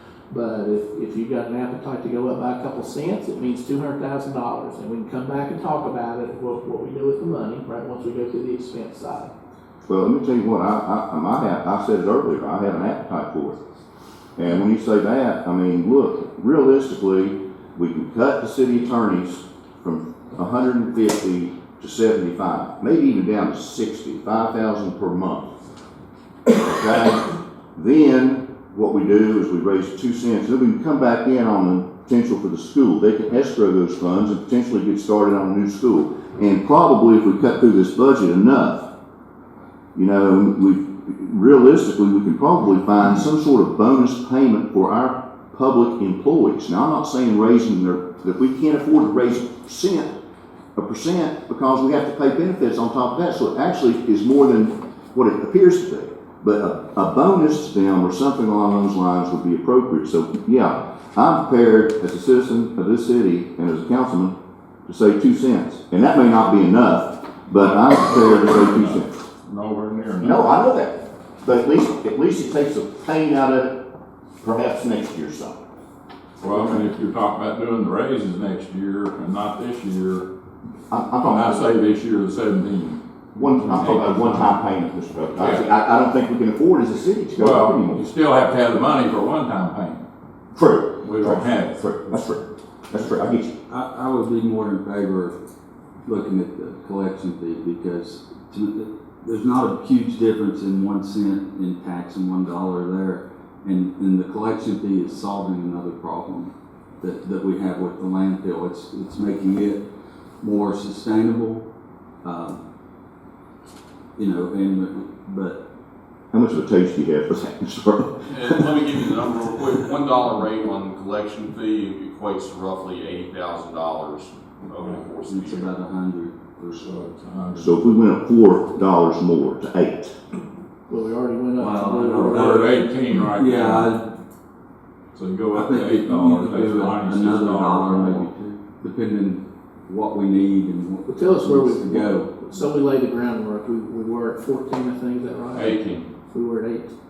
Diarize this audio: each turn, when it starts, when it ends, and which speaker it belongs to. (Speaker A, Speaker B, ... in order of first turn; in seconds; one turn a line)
Speaker A: 0.3-9.3
Speaker B: 9.8-13.6
Speaker B: 14.4-25.5
Speaker B: 26.5-38.9
Speaker B: 39.9-50.1
Speaker B: 50.8-64.3
Speaker B: 64.8-69.1
Speaker C: 67.5-70.5
Speaker B: 70.2-73.8
Speaker B: 74.4-75.6
Speaker C: 76.4-80.2
Speaker B: 80.9-81.7
Speaker C: 81.2-84.6
Speaker B: 83.4-88.0
Speaker C: 85.3-85.7
Speaker C: 87.3-90.0
Speaker B: 90.5-93.5
Speaker C: 91.0-91.9
Speaker D: 93.7-95.4
Speaker D: 96.0-109.8
Speaker D: 110.4-111.6
Speaker D: 112.2-112.6
Speaker D: 114.2-115.6
Speaker B: 116.3-118.7
Speaker E: 118.3-125.7
Speaker D: 125.2-126.8
Speaker C: 126.7-127.9
Speaker B: 127.6-130.1
Speaker A: 130.9-132.9
Speaker D: 131.6-134.1
Speaker C: 132.2-134.0
Speaker C: 135.1-138.3
Speaker D: 135.5-142.4
Speaker A: 141.1-145.8
Speaker C: 145.5-146.1
Speaker A: 146.3-146.9